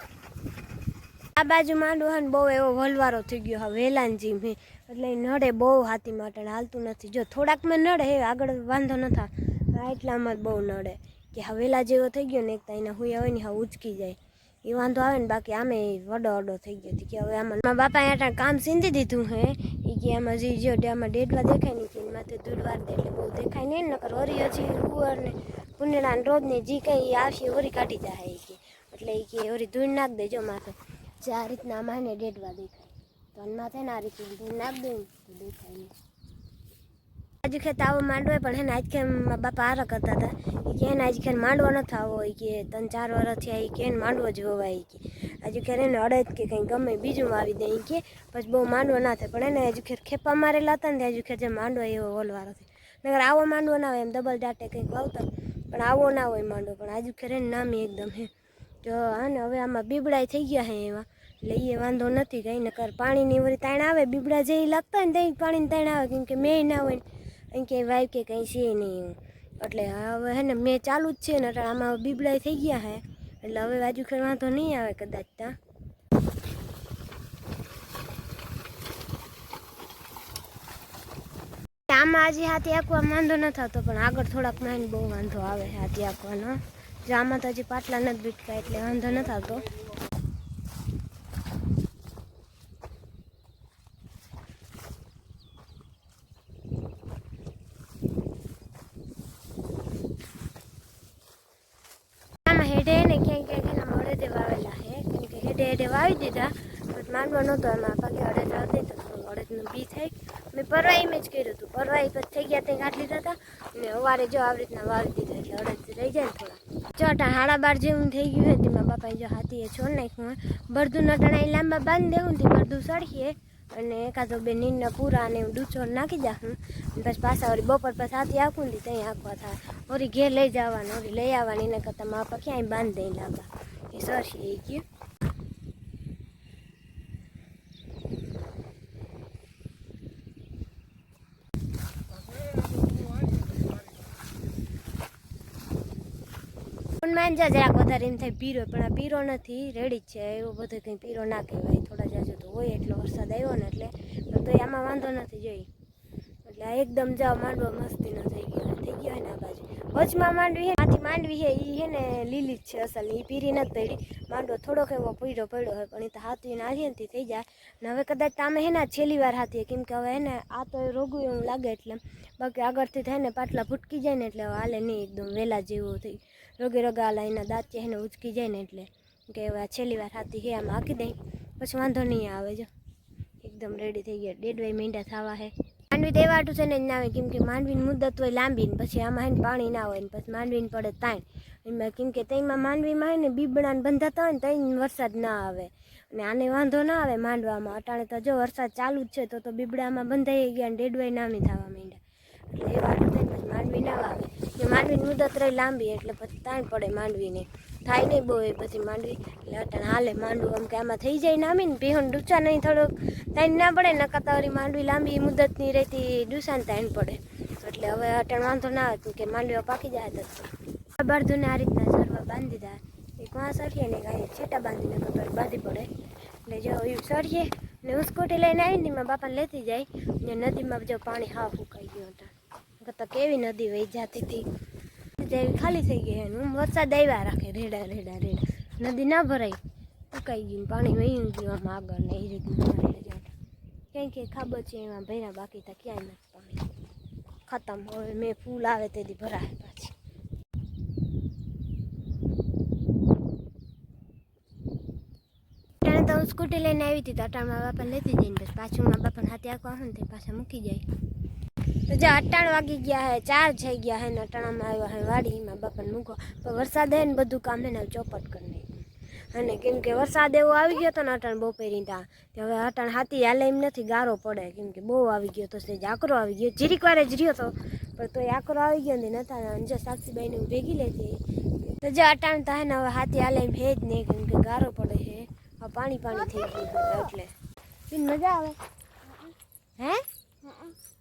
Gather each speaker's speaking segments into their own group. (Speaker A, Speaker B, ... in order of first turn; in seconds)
Speaker A: 1.4-35.9, 37.4-58.3, 58.8-75.5, 81.9-89.7, 102.4-134.8, 147.0-155.7, 156.4-182.7, 183.4-225.9, 226.4-234.4, 235.2-239.6, 240.1-243.3, 243.9-246.6, 247.5-249.9, 255.8-260.8, 261.9-287.3, 287.9-288.6, 289.8-290.7